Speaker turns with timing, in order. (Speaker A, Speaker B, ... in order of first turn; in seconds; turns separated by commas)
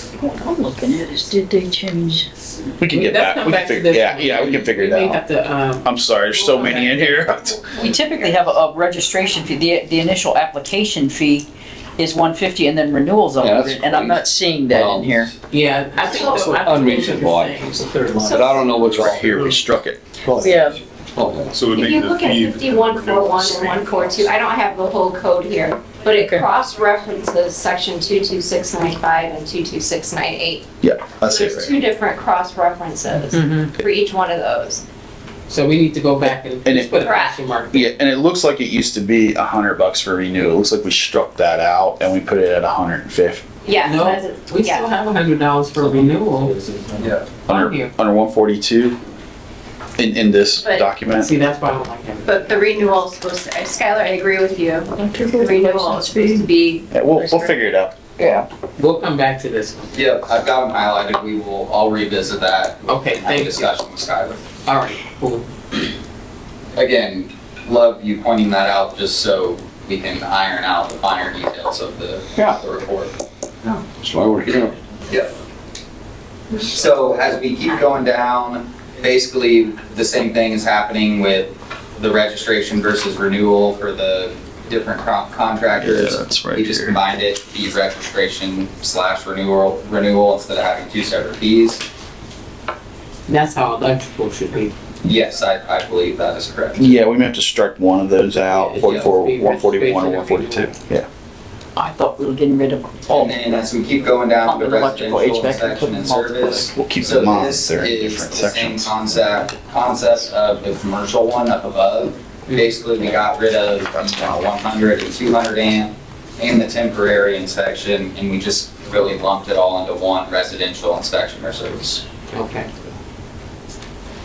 Speaker A: 0.2-2.3, Speaker B: 2.8-5.2, Speaker C: 2.9-7.6, Speaker B: 5.8-7.6, Speaker A: 7.8-15.3, Speaker D: 13.4-15.3, Speaker C: 15.5-17.8, Speaker E: 16.2-16.6, Speaker D: 16.3-19.6, Speaker E: 18.3-18.6, Speaker B: 18.8-20.0, Speaker D: 20.2-21.6, Speaker A: 20.4-20.8, Speaker F: 21.5-24.2, Speaker E: 21.7-30.7, Speaker A: 26.1-26.4, Speaker B: 30.8-31.7, Speaker E: 31.3-34.8, Speaker A: 33.3-33.6, Speaker C: 35.5-37.9, Speaker B: 36.6-37.1, Speaker E: 37.0-37.4, Speaker B: 37.7-43.4, Speaker E: 43.6-44.9, Speaker C: 43.8-46.6, Speaker D: 47.0-47.3, Speaker B: 47.5-49.0, Speaker C: 47.5-47.9, Speaker B: 50.0-51.3, Speaker E: 50.6-50.9, Speaker C: 51.1-52.8, Speaker E: 52.3-57.5, Speaker A: 54.9-56.5, Speaker B: 56.9-57.9, Speaker A: 58.2-58.5, Speaker C: 58.8-60.0, Speaker G: 59.9-64.4, Speaker C: 62.9-63.7, Speaker C: 64.7-65.5, Speaker G: 66.8-73.2, Speaker D: 73.9-74.8, Speaker G: 76.6-91.8, Speaker B: 85.8-87.0, Speaker C: 93.3-94.7, Speaker G: 95.0-97.0, Speaker B: 96.8-101.1, Speaker C: 98.5-100.8, Speaker A: 101.8-103.4, Speaker G: 103.1-122.0, Speaker A: 104.4-106.7, Speaker B: 106.5-108.9, Speaker C: 122.3-122.7